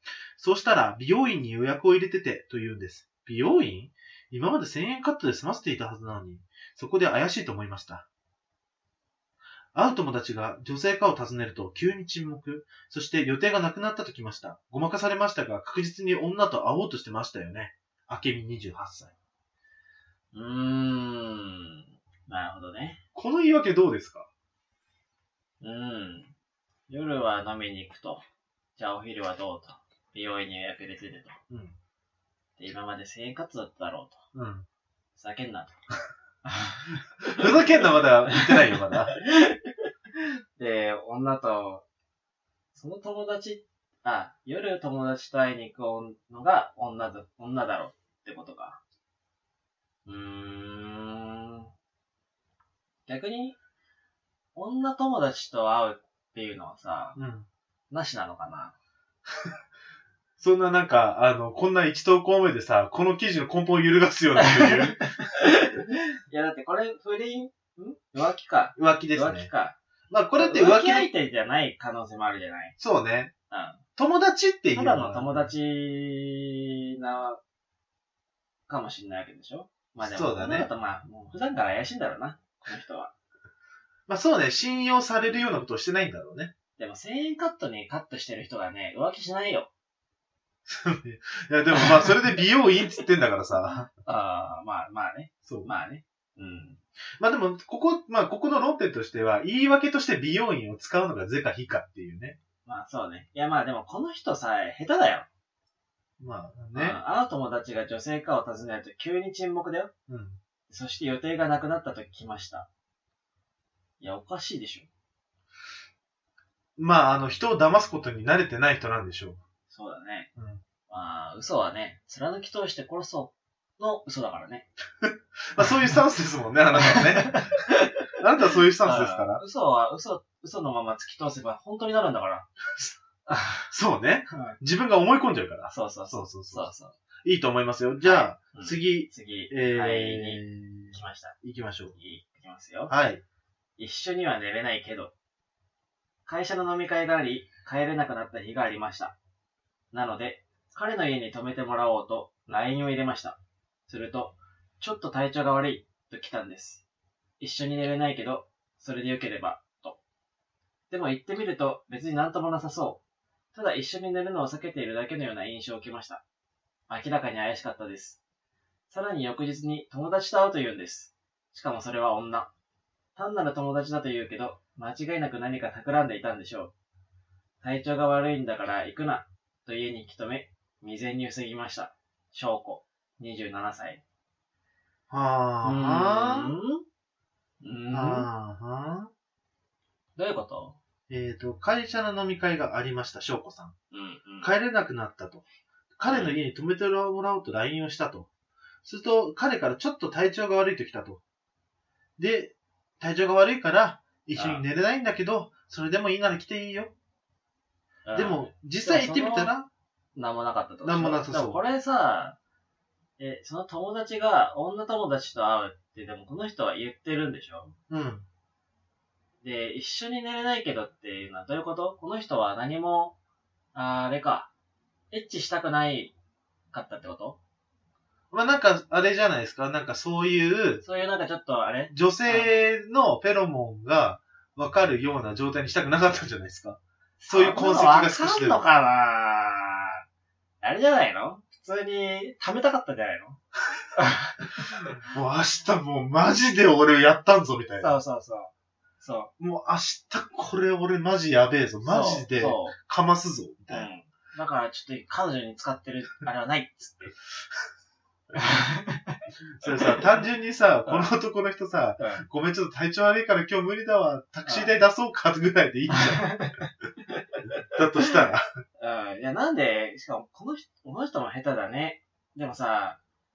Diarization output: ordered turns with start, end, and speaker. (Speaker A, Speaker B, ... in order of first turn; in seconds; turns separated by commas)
Speaker A: 0.4-8.1, Speaker A: 9.7-19.1, Speaker B: 20.3-23.0, Speaker A: 23.1-24.3, Speaker B: 25.6-26.3, Speaker B: 26.9-28.2, Speaker B: 28.8-31.4, Speaker A: 31.5-31.8, Speaker B: 32.6-34.2, Speaker A: 34.3-34.7, Speaker B: 35.1-35.8, Speaker B: 36.5-41.9, Speaker A: 37.3-39.2, Speaker B: 42.8-48.8, Speaker B: 50.1-51.7, Speaker B: 53.1-53.6, Speaker B: 54.5-57.2, Speaker A: 57.1-57.5, Speaker B: 57.9-58.8, Speaker A: 60.4-65.1, Speaker B: 64.4-69.8, Speaker A: 68.8-69.5, Speaker A: 70.1-71.1, Speaker B: 70.3-72.8, Speaker A: 72.8-73.3, Speaker B: 73.5-73.8, Speaker A: 74.0-75.5, Speaker B: 74.7-77.4, Speaker B: 78.7-83.1, Speaker A: 80.0-80.7, Speaker A: 84.1-86.5, Speaker B: 86.8-89.7, Speaker A: 90.7-93.9, Speaker B: 91.8-92.1, Speaker B: 94.0-96.8, Speaker A: 97.2-102.4, Speaker B: 102.6-105.3, Speaker A: 106.2-107.0, Speaker B: 106.7-109.9, Speaker A: 110.1-110.4, Speaker B: 110.7-112.7, Speaker B: 114.0-114.9, Speaker A: 116.8-119.4, Speaker B: 119.7-120.3, Speaker A: 120.4-120.6, Speaker B: 120.9-124.7, Speaker A: 125.0-127.5, Speaker B: 126.8-127.9, Speaker A: 128.2-129.4, Speaker B: 128.8-132.5, Speaker B: 133.3-133.6, Speaker A: 133.7-136.7, Speaker B: 134.3-134.6, Speaker B: 135.7-137.0, Speaker A: 137.2-141.9, Speaker B: 138.0-141.4, Speaker B: 141.9-142.9, Speaker A: 142.9-143.2, Speaker B: 143.8-145.1, Speaker B: 146.3-149.1, Speaker B: 149.9-156.8, Speaker B: 157.4-160.0, Speaker B: 160.9-163.0, Speaker B: 163.5-166.2, Speaker B: 166.9-168.2, Speaker B: 168.9-172.5, Speaker B: 173.2-176.7, Speaker B: 177.6-184.0, Speaker A: 185.1-186.5, Speaker B: 185.6-186.8, Speaker B: 187.6-188.3, Speaker A: 187.9-189.1, Speaker B: 190.2-190.8, Speaker A: 191.1-193.8, Speaker B: 193.9-194.5, Speaker A: 194.4-195.4, Speaker A: 196.0-198.3, Speaker B: 196.1-196.4, Speaker A: 198.8-201.2, Speaker A: 202.2-206.9, Speaker B: 204.3-204.6, Speaker B: 208.1-209.5, Speaker A: 208.1-209.7, Speaker B: 210.1-212.4, Speaker A: 210.8-211.6, Speaker B: 213.2-217.8, Speaker A: 217.9-218.3, Speaker B: 219.4-223.2, Speaker B: 223.7-224.5, Speaker B: 225.1-226.2, Speaker B: 226.7-227.4, Speaker A: 228.3-230.8, Speaker B: 230.8-232.6, Speaker A: 231.9-238.6, Speaker B: 237.2-240.0, Speaker B: 240.6-243.4, Speaker B: 244.0-244.9, Speaker A: 244.8-248.0, Speaker B: 247.8-249.3, Speaker A: 249.4-253.9, Speaker B: 251.8-252.8, Speaker B: 253.7-257.1, Speaker B: 258.4-260.0, Speaker A: 259.6-266.4, Speaker B: 262.0-262.2, Speaker B: 264.4-264.7, Speaker B: 265.9-267.4, Speaker A: 267.7-268.4, Speaker B: 268.8-273.0